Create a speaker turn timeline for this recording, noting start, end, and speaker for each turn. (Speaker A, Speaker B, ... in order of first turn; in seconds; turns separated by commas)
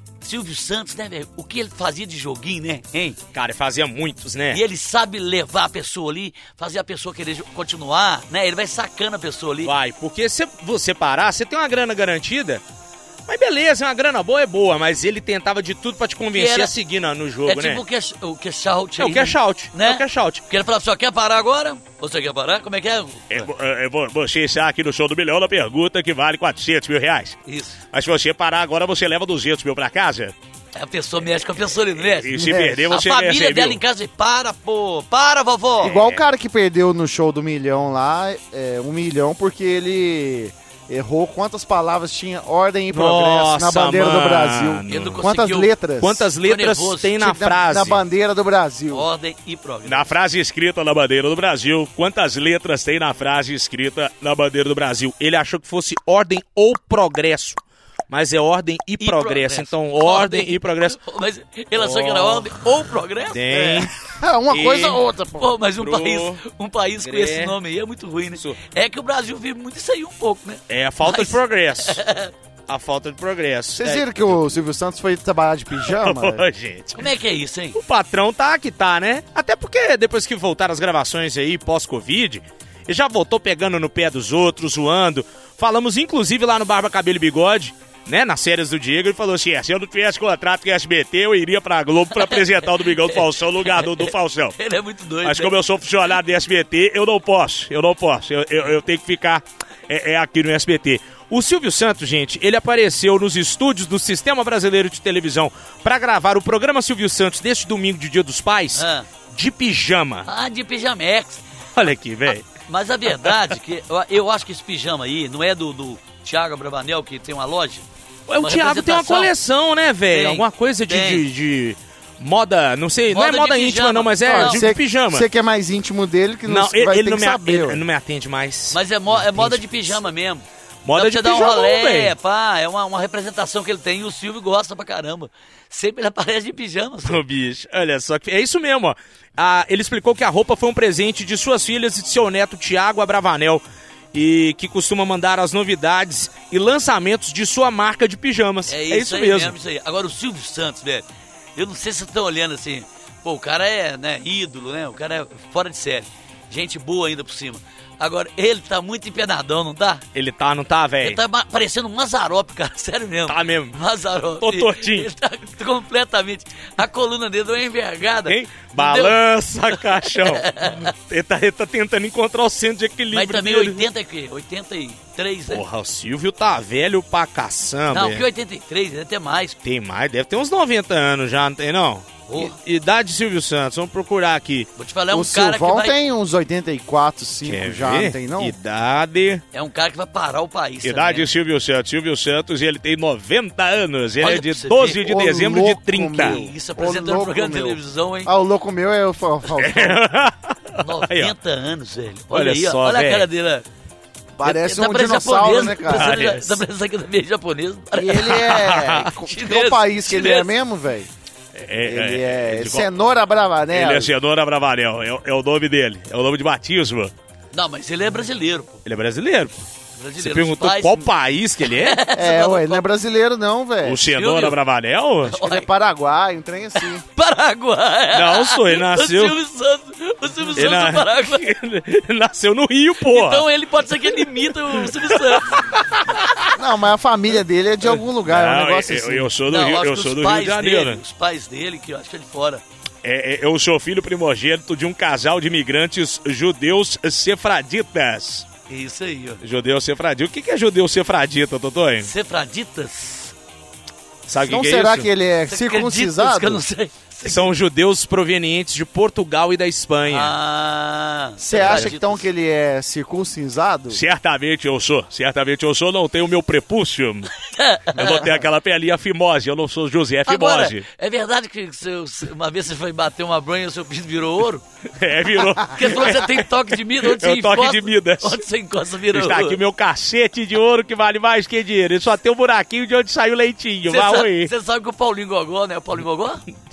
Speaker A: 0.2-3.2, Speaker B: 3.3-4.6, Speaker A: 4.5-9.7, Speaker B: 9.6-12.6, Speaker B: 13.3-17.8, Speaker A: 16.3-16.7, Speaker A: 17.5-23.5, Speaker B: 19.0-20.4, Speaker B: 23.3-27.4, Speaker A: 27.4-27.8, Speaker B: 27.9-30.3, Speaker A: 30.7-36.0, Speaker B: 31.9-33.8, Speaker C: 32.3-32.9, Speaker C: 35.8-46.3, Speaker B: 35.9-36.2, Speaker B: 42.9-45.2, Speaker A: 44.9-45.7, Speaker B: 46.0-48.0, Speaker A: 46.4-47.1, Speaker C: 47.2-49.1, Speaker A: 48.9-50.1, Speaker B: 49.8-61.0, Speaker A: 59.0-63.9, Speaker B: 61.8-62.5, Speaker B: 63.3-63.9, Speaker C: 64.0-65.5, Speaker B: 64.5-65.0, Speaker A: 65.4-72.3, Speaker B: 65.8-66.4, Speaker B: 67.0-67.6, Speaker B: 70.7-72.0, Speaker B: 72.7-74.4, Speaker C: 73.8-76.4, Speaker B: 75.7-77.1, Speaker A: 76.9-77.8, Speaker B: 77.7-94.6, Speaker A: 92.1-95.5, Speaker B: 95.2-110.3, Speaker A: 108.7-109.1, Speaker A: 110.2-111.4, Speaker B: 111.8-112.5, Speaker A: 112.4-117.8, Speaker B: 113.1-113.5, Speaker B: 118.3-125.2, Speaker A: 118.4-119.3, Speaker A: 120.1-121.2, Speaker A: 123.1-124.6, Speaker C: 124.2-127.8, Speaker B: 126.5-130.0, Speaker A: 128.7-137.2, Speaker B: 130.8-132.1, Speaker B: 137.0-149.5, Speaker A: 148.7-151.0, Speaker A: 151.6-160.0, Speaker B: 160.1-161.2, Speaker A: 161.0-169.2, Speaker B: 163.3-163.8, Speaker B: 164.3-165.1, Speaker B: 168.2-173.9, Speaker A: 169.7-170.9, Speaker A: 173.1-175.6, Speaker B: 175.5-178.2, Speaker A: 177.9-179.6, Speaker B: 179.6-184.7, Speaker A: 182.3-182.6, Speaker A: 184.8-186.0, Speaker C: 185.1-188.6, Speaker B: 187.4-189.4, Speaker A: 189.5-191.3, Speaker B: 190.8-196.4, Speaker A: 194.2-195.0, Speaker C: 195.0-200.0, Speaker A: 196.2-198.3, Speaker B: 199.6-201.3, Speaker A: 200.8-203.7, Speaker B: 202.3-203.3, Speaker C: 204.4-206.2, Speaker A: 204.4-210.5, Speaker B: 205.8-206.6, Speaker C: 207.9-211.1, Speaker B: 208.3-209.1, Speaker B: 211.5-212.9, Speaker C: 211.8-214.1, Speaker B: 213.7-217.1, Speaker A: 217.5-218.8, Speaker B: 218.8-219.6, Speaker A: 220.0-221.1, Speaker B: 220.2-222.0, Speaker A: 221.6-222.9, Speaker C: 222.1-224.1, Speaker B: 223.8-225.4, Speaker A: 224.1-224.6, Speaker A: 225.2-225.7, Speaker C: 225.3-227.0, Speaker A: 226.8-231.5, Speaker B: 228.1-229.4, Speaker B: 230.5-233.5, Speaker A: 233.0-235.8, Speaker B: 234.0-236.5, Speaker C: 236.5-239.3, Speaker B: 237.8-241.0, Speaker A: 239.5-242.6, Speaker B: 243.0-248.4, Speaker A: 248.7-249.4, Speaker B: 249.4-252.1, Speaker A: 252.0-253.3, Speaker B: 254.3-255.1, Speaker C: 254.4-256.6, Speaker A: 255.5-257.5, Speaker B: 257.2-260.3, Speaker A: 260.0-262.3, Speaker C: 261.4-264.0, Speaker B: 261.6-261.9, Speaker B: 263.9-267.3, Speaker A: 267.4-268.3, Speaker B: 267.9-270.8, Speaker A: 270.3-274.6, Speaker B: 274.9-278.4, Speaker A: 275.6-279.6, Speaker B: 279.1-284.5, Speaker A: 283.9-286.4